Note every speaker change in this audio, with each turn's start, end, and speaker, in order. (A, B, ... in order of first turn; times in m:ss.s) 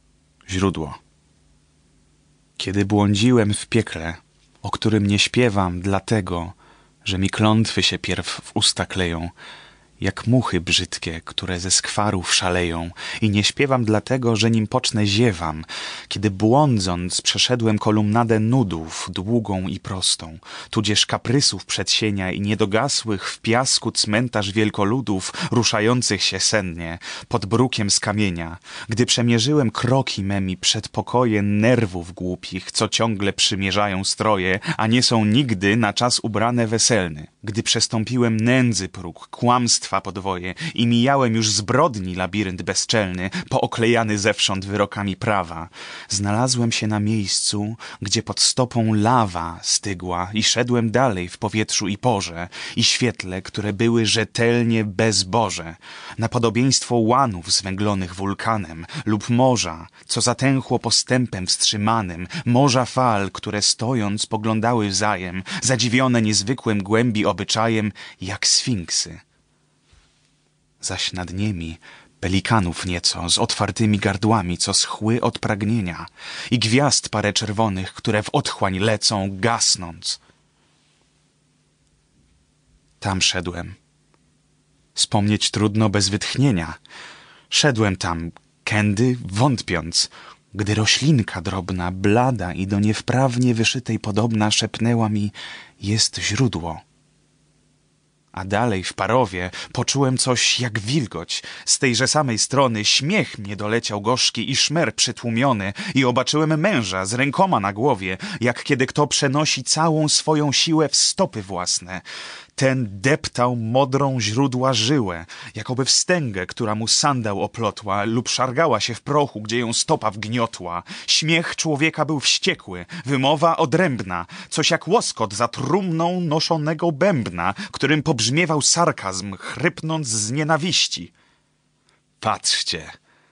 0:00.5-0:01.0 A
0:02.6-0:09.3 A
0:10.0-1:09.2 A
1:10.8-1:20.2 A
1:23.0-1:23.8 A
1:25.0-1:26.8 A
1:27.5-1:36.8 A
1:38.3-1:52.0 A
1:52.6-2:11.1 A
2:12.2-2:12.9 A